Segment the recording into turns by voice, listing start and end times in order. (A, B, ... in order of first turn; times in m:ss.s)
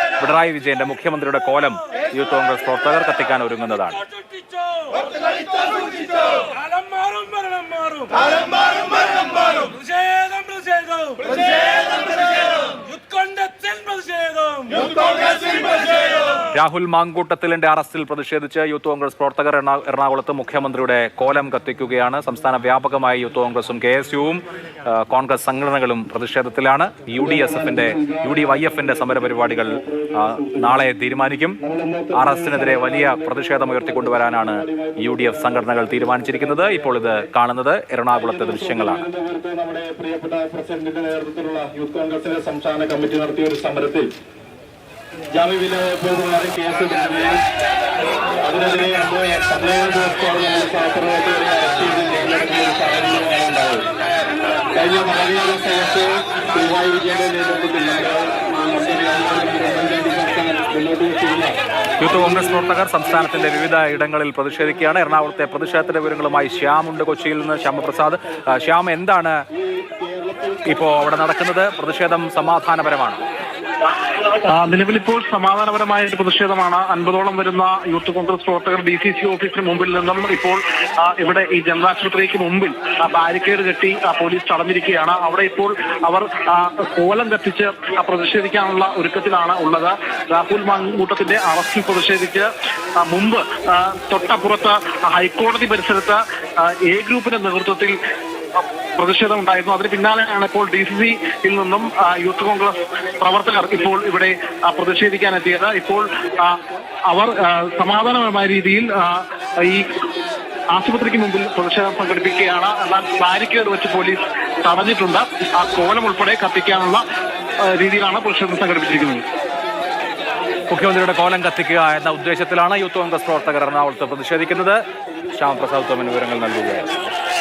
0:00.2-0:04.0 A
0:04.0-0:16.2 B
0:16.5-0:31.6 A
0:27.2-0:30.8 C
0:31.6-0:37.2 C
0:32.1-0:39.0 A
0:38.1-0:44.1 C
0:45.3-0:47.3 C
0:48.4-0:53.8 C
0:54.7-1:01.5 C
1:02.0-1:09.4 A
1:02.1-1:02.5 C
1:09.8-1:10.7 C
1:10.7-1:13.2 A
1:14.1-1:32.5 D
1:33.0-1:38.0 D
1:38.6-1:49.9 D
1:50.7-1:57.0 D
1:57.7-1:59.2 D
2:00.7-2:04.8 A
2:05.3-2:06.9 A